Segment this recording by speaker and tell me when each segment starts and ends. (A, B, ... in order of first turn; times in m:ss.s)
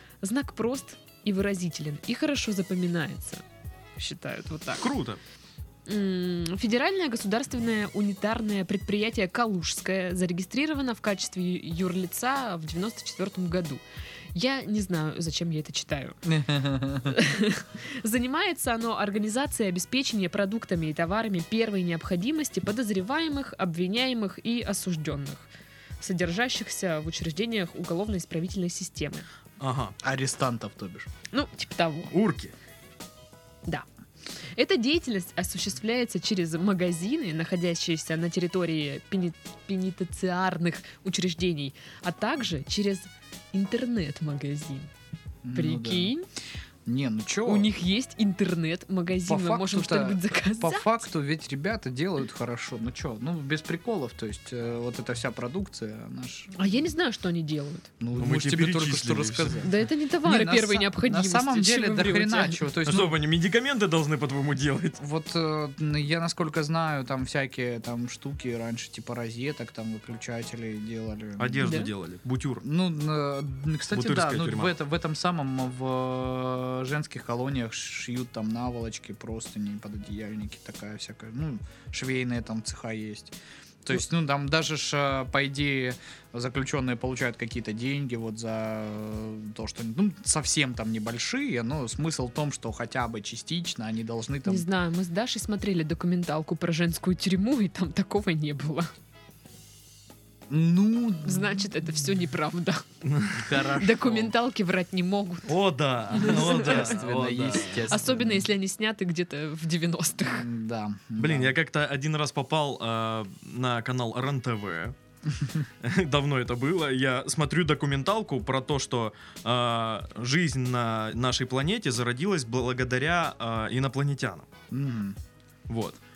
0:00.2-0:03.4 A
0:04.0-0:04.8 A
0:04.8-0:05.2 B
0:05.8-0:13.8 A
0:14.3-0:16.2 A
0:16.2-0:17.2 C
0:17.0-0:25.5 A
0:26.0-0:29.3 A
0:29.6-0:30.0 B
0:30.0-0:31.1 C
0:31.3-0:32.1 A
0:32.1-0:32.5 B
0:34.5-0:44.9 A
0:45.4-0:46.1 C
0:45.5-0:46.2 A
0:46.8-0:47.7 C
0:47.4-0:50.9 A
0:49.2-0:56.6 C
0:56.5-0:57.9 A
0:58.0-1:03.2 C
0:58.2-0:59.6 B
0:59.6-1:02.6 A
1:02.8-1:05.0 B
1:05.0-1:11.8 C
1:11.4-1:12.6 B
1:11.6-1:11.9 A
1:12.6-1:34.7 C
1:13.9-1:14.7 B
1:34.4-1:38.9 A
1:40.5-1:41.6 C
1:41.2-1:42.8 A
1:43.1-1:43.4 B
1:43.4-1:44.3 C
1:43.6-1:45.5 A
1:45.5-1:47.9 B
1:46.1-1:47.0 A
1:46.1-1:48.5 C
1:47.7-1:50.5 A
1:50.2-1:51.6 C
1:51.2-1:54.9 B
1:55.8-2:04.5 B
2:04.7-2:05.2 C
2:05.7-2:06.0 B